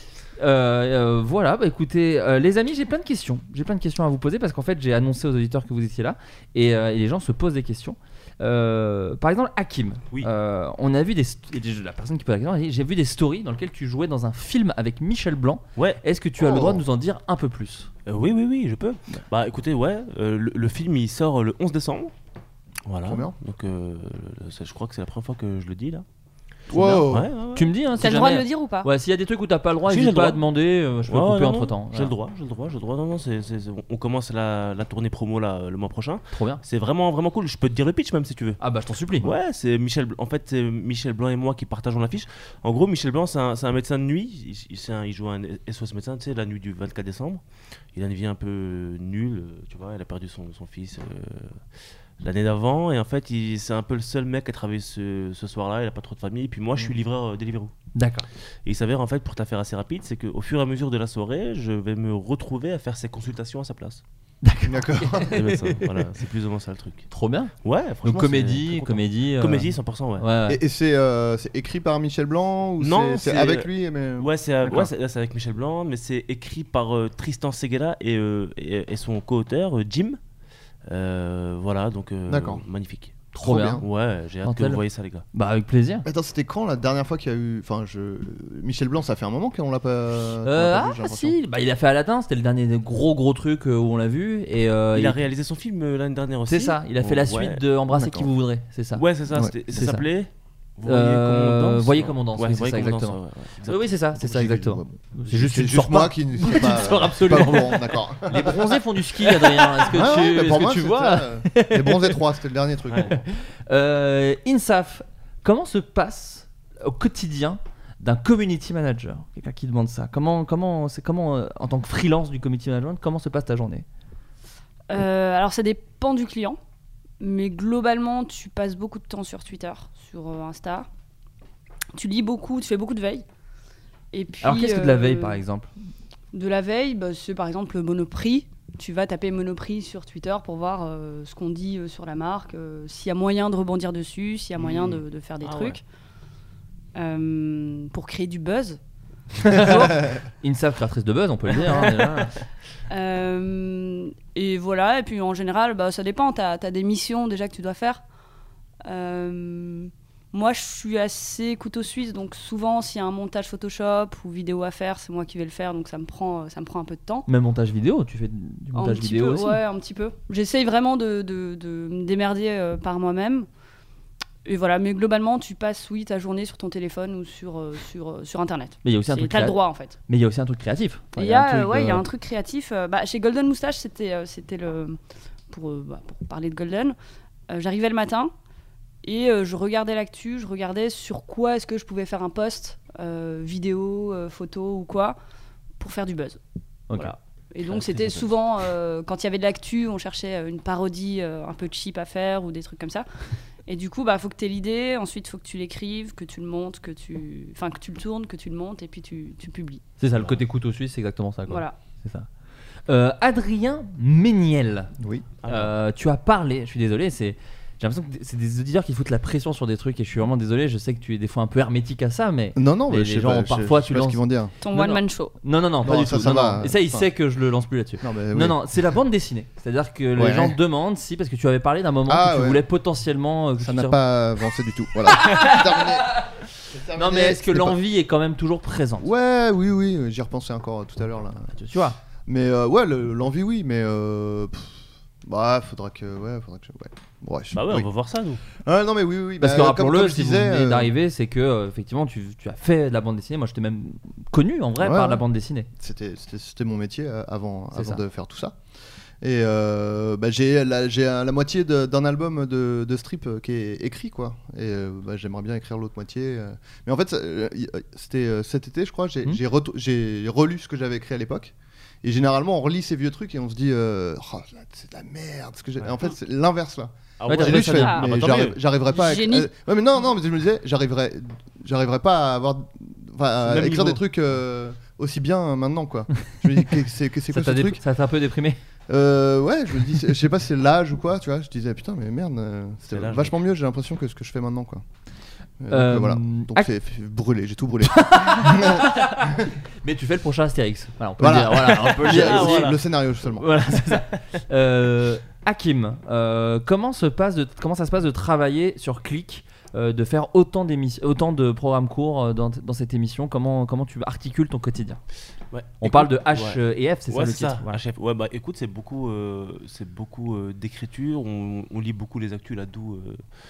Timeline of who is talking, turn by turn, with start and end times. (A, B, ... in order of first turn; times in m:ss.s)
0:00.4-0:17.9 A
0:15.8-0:16.0 B
0:16.4-0:16.8 C
0:18.1-0:22.1 B
0:22.9-0:26.0 B
0:23.0-0:23.4 C
0:26.7-0:27.3 C
0:26.7-0:32.1 A
0:27.1-0:27.7 B
0:28.0-0:28.9 D
0:29.9-0:30.4 B
0:31.1-0:38.6 B
0:36.3-0:36.6 A
0:38.6-0:39.3 A
0:39.2-0:47.4 B
0:47.9-0:51.6 B
0:52.2-0:57.7 B
0:58.0-0:58.3 A
0:58.7-1:04.0 B
1:04.4-1:05.8 A
1:04.7-1:05.4 C
1:05.3-1:07.1 B
1:07.1-1:07.5 A
1:07.6-1:10.3 B
1:08.0-1:10.6 A
1:10.5-1:14.9 C
1:12.8-1:20.2 B
1:20.9-1:23.3 B
1:22.3-1:22.6 C
1:23.3-1:23.9 A
1:23.4-1:23.8 C
1:23.8-1:25.2 B
1:24.4-1:24.8 A
1:25.3-1:26.1 A
1:26.0-1:31.4 C
1:30.4-1:35.2 A
1:35.0-1:37.6 B
1:36.5-1:39.0 A
1:37.9-1:38.3 C
1:39.0-1:43.9 B
1:39.7-1:40.0 A
1:40.9-1:43.2 A
1:43.7-1:52.2 A
1:44.2-1:48.8 C
1:49.8-1:53.2 C
1:53.0-2:03.8 A
2:04.9-2:06.6 D
2:07.2-2:10.9 D
2:12.0-2:13.2 D
2:14.1-2:15.4 D
2:14.4-2:15.7 A
2:16.3-2:25.8 D
2:24.6-2:25.0 C
2:25.4-2:25.8 B
2:27.0-2:28.8 D
2:29.4-2:29.8 A
2:29.5-2:30.2 D
2:30.4-2:32.3 A
2:32.9-2:38.0 D
2:38.8-2:47.3 D
2:47.3-2:49.6 A
2:48.7-2:53.5 D
2:54.4-3:00.0 D
2:58.8-3:02.0 A
3:01.2-3:05.0 D
3:05.5-3:07.0 D
3:07.5-3:08.3 D
3:09.0-3:15.2 D
3:15.8-3:16.4 D
3:16.9-3:23.1 D
3:17.6-3:18.3 B
3:23.7-3:29.8 D
3:30.0-3:32.3 A
3:31.5-3:31.8 D
3:32.9-3:34.9 A
3:35.0-3:35.3 C
3:35.4-3:35.7 B
3:35.5-3:54.0 A
3:42.6-3:44.5 C
3:44.6-3:45.4 D
3:45.8-3:47.1 C
3:48.0-3:48.6 C
3:50.2-3:50.6 C
3:52.1-3:52.6 C
3:53.6-3:56.1 C
3:55.2-3:55.8 A
3:56.7-3:57.8 C
3:56.9-3:59.1 A
3:59.0-4:01.5 C
4:01.5-4:02.0 A
4:02.3-4:07.9 C
4:07.5-4:08.4 B
4:08.6-4:10.9 C
4:09.4-4:15.7 A
4:14.8-4:15.2 C
4:15.8-4:18.6 C
4:17.7-4:18.0 A
4:19.2-4:47.8 C
4:37.2-4:38.6 B
4:37.3-4:38.1 A
4:37.7-4:38.1 D
4:38.9-4:39.5 D
4:43.4-4:44.0 B
4:47.3-4:48.6 A
4:48.9-4:54.8 C
4:52.9-4:53.4 B
4:55.6-4:59.4 C
4:55.7-4:56.7 A
4:57.9-5:02.7 A
5:01.2-5:03.5 C
5:02.0-5:02.8 B
5:03.4-5:15.0 A
5:15.5-5:23.2 B
5:15.8-5:17.8 A